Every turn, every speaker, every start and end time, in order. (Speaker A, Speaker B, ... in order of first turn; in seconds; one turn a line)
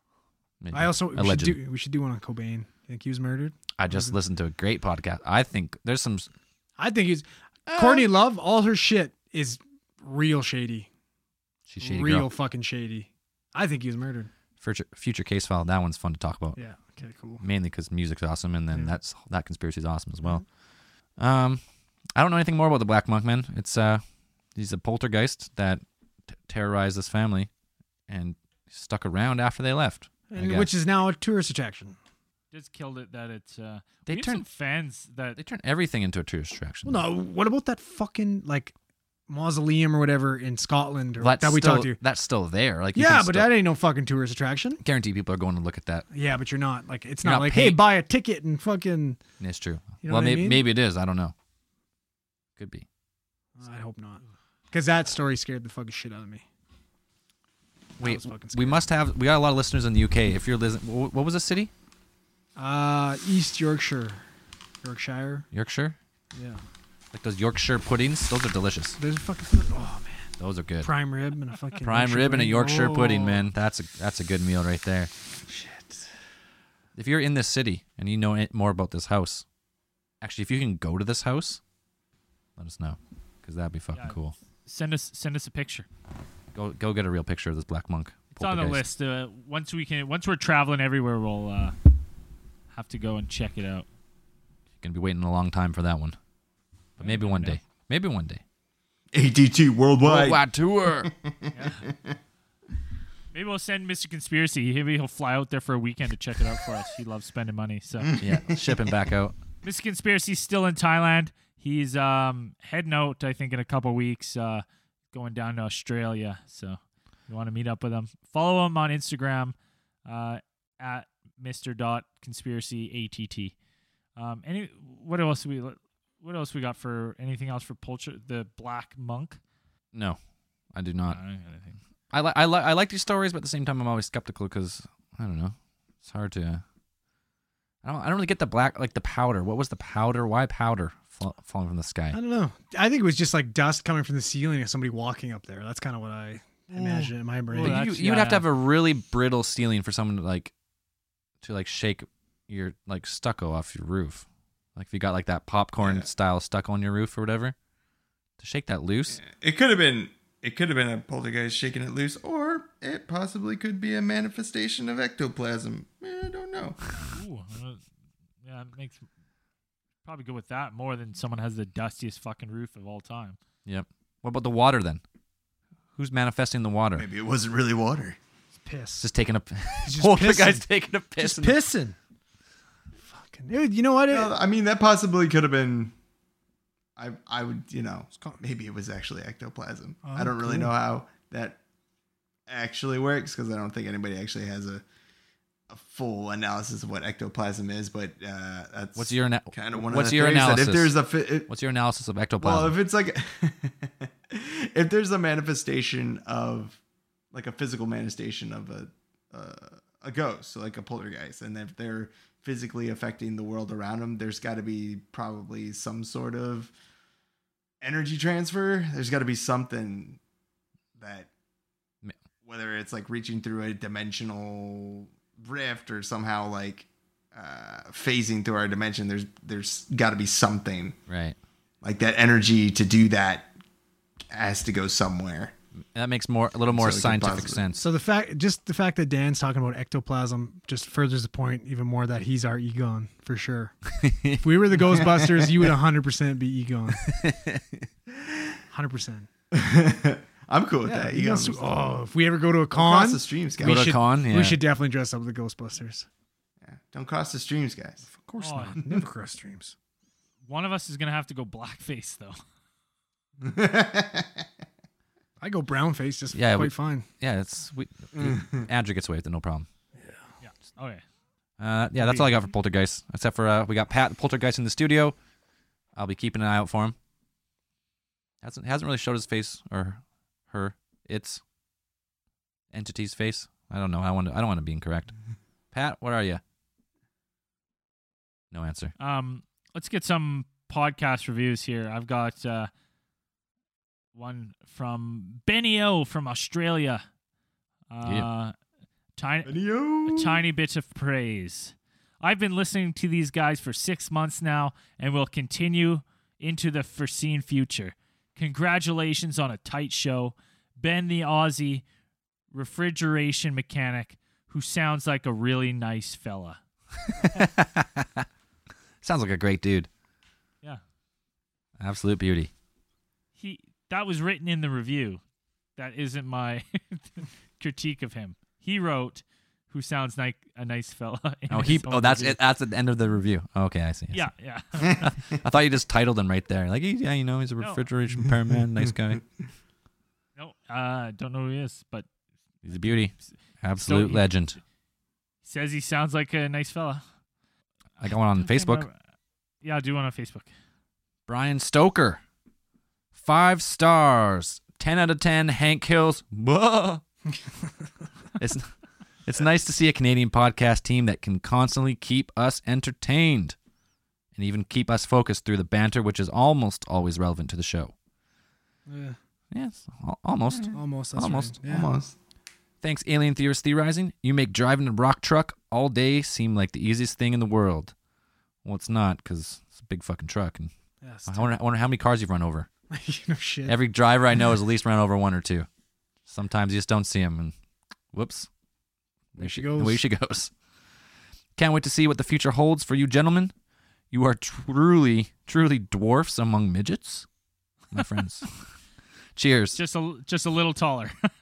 Speaker A: 0.6-1.6
Speaker B: 0.7-4.2
Speaker A: 3.8-6.3
Speaker B: 6.8-10.9
Speaker A: 7.7-8.1
Speaker A: 11.7-12.3
Speaker B: 11.8-14.3
Speaker A: 14.6-16.6
Speaker B: 16.6-17.4
Speaker A: 17.4-20.4
Speaker A: 21.2-21.6
Speaker A: 22.2-24.0
Speaker A: 24.6-25.8
Speaker A: 26.5-27.5
Speaker A: 28.1-30.7
Speaker B: 30.3-32.0
Speaker C: 32.5-35.4
Speaker A: 34.1-34.4
Speaker A: 35.4-37.0
Speaker B: 36.9-38.7
Speaker B: 39.3-42.0
Speaker A: 41.2-43.6
Speaker B: 43.0-44.8
Speaker A: 44.8-46.1
Speaker B: 46.1-49.2
Speaker A: 47.2-47.8
Speaker A: 49.4-51.3
Speaker B: 50.0-50.6
Speaker A: 52.6-52.9
Speaker B: 53.6-56.5
Speaker B: 58.0-58.8
Speaker A: 58.0-61.7
Speaker B: 62.6-64.2
Speaker B: 64.8-65.5
Speaker A: 65.5-66.0
Speaker B: 66.3-66.6
Speaker A: 67.1-69.0
Speaker B: 69.0-73.5
Speaker A: 70.4-70.9
Speaker A: 71.8-75.1
Speaker B: 75.5-76.1
Speaker A: 77.0-79.5
Speaker A: 80.2-81.6
Speaker A: 82.6-84.3
Speaker C: 83.9-85.9
Speaker A: 86.5-88.8
Speaker C: 88.4-91.8
Speaker C: 92.7-93.9
Speaker A: 94.8-96.2
Speaker A: 97.0-98.4
Speaker C: 97.0-97.6
Speaker D: 99.1-100.4
Speaker A: 100.0-101.1
Speaker D: 101.0-102.2
Speaker C: 101.5-101.8
Speaker C: 103.3-108.1
Speaker D: 108.0-108.9
Speaker A: 108.2-109.4
Speaker C: 109.6-119.5
Speaker C: 120.1-123.5
Speaker C: 124.2-129.4
Speaker A: 130.7-131.2
Speaker C: 131.1-131.8
Speaker A: 132.1-136.6
Speaker A: 137.8-142.2
Speaker B: 142.1-147.9
Speaker C: 147.5-148.5
Speaker A: 147.6-150.5
Speaker A: 151.4-154.2
Speaker A: 154.8-157.6
Speaker D: 155.8-156.1
Speaker A: 158.4-159.2
Speaker D: 159.1-166.8
Speaker C: 167.0-167.8
Speaker C: 168.4-169.1
Speaker C: 170.1-173.4
Speaker A: 173.7-175.0
Speaker A: 176.0-177.1
Speaker D: 177.0-178.2
Speaker B: 178.6-179.1
Speaker A: 179.0-181.6
Speaker B: 179.8-180.7
Speaker B: 181.2-182.0
Speaker B: 183.0-184.3
Speaker D: 184.1-185.9
Speaker D: 187.0-191.6
Speaker B: 188.2-188.4
Speaker B: 190.0-190.7
Speaker D: 192.5-194.8
Speaker D: 195.7-201.5
Speaker A: 199.0-201.0
Speaker A: 201.5-202.8
Speaker D: 202.4-206.8
Speaker D: 207.3-216.7
Speaker D: 217.8-220.2
Speaker D: 221.0-221.3
Speaker D: 222.4-231.0
Speaker A: 231.1-231.4
Speaker D: 231.8-233.5
Speaker D: 234.3-235.5
Speaker A: 235.9-237.8
Speaker D: 236.7-237.6
Speaker B: 237.8-247.1
Speaker A: 244.0-245.1
Speaker A: 247.0-247.9
Speaker D: 248.2-248.6
Speaker B: 248.7-249.3
Speaker D: 249.5-251.9
Speaker B: 250.8-256.1
Speaker D: 252.7-253.9
Speaker A: 253.6-254.6
Speaker D: 256.6-258.1
Speaker B: 258.1-259.8
Speaker C: 258.4-258.8
Speaker C: 260.5-262.4
Speaker D: 263.4-264.5
Speaker B: 265.4-267.1
Speaker A: 266.3-269.7
Speaker D: 268.1-268.6
Speaker B: 269.9-270.3
Speaker C: 270.4-271.0
Speaker A: 271.6-275.1
Speaker C: 272.0-272.3
Speaker A: 276.0-277.0
Speaker A: 278.4-281.4
Speaker A: 282.7-285.1
Speaker A: 285.7-286.4
Speaker A: 288.5-288.9
Speaker C: 289.0-292.7
Speaker C: 294.1-297.0
Speaker C: 297.9-298.5
Speaker C: 299.2-311.9
Speaker D: 299.4-300.4
Speaker C: 312.5-316.6
Speaker A: 317.1-318.3
Speaker A: 319.0-319.9
Speaker A: 321.8-322.5
Speaker C: 323.4-325.2
Speaker C: 325.8-332.4
Speaker A: 331.5-334.3
Speaker C: 334.1-335.1
Speaker A: 334.8-339.2
Speaker C: 340.4-342.1
Speaker A: 342.6-344.6
Speaker C: 342.7-343.0
Speaker C: 343.9-344.3
Speaker C: 345.4-347.0
Speaker C: 348.0-348.9
Speaker A: 348.0-348.9
Speaker C: 349.6-350.5
Speaker A: 351.3-352.2
Speaker A: 353.1-357.0
Speaker A: 358.4-358.7
Speaker A: 359.3-363.6
Speaker A: 364.4-367.9
Speaker B: 368.9-369.2
Speaker A: 369.5-371.6
Speaker B: 370.7-371.9
Speaker D: 371.6-372.1
Speaker A: 372.8-377.9
Speaker A: 378.6-380.7
Speaker B: 381.0-381.6
Speaker A: 381.3-382.7
Speaker B: 382.9-383.8
Speaker A: 383.7-385.7
Speaker A: 386.3-387.5
Speaker A: 388.1-388.5
Speaker B: 389.4-390.0
Speaker A: 389.4-390.5
Speaker A: 391.6-393.5
Speaker A: 394.1-397.3
Speaker A: 397.9-398.6
Speaker A: 399.4-399.8
Speaker C: 399.8-401.3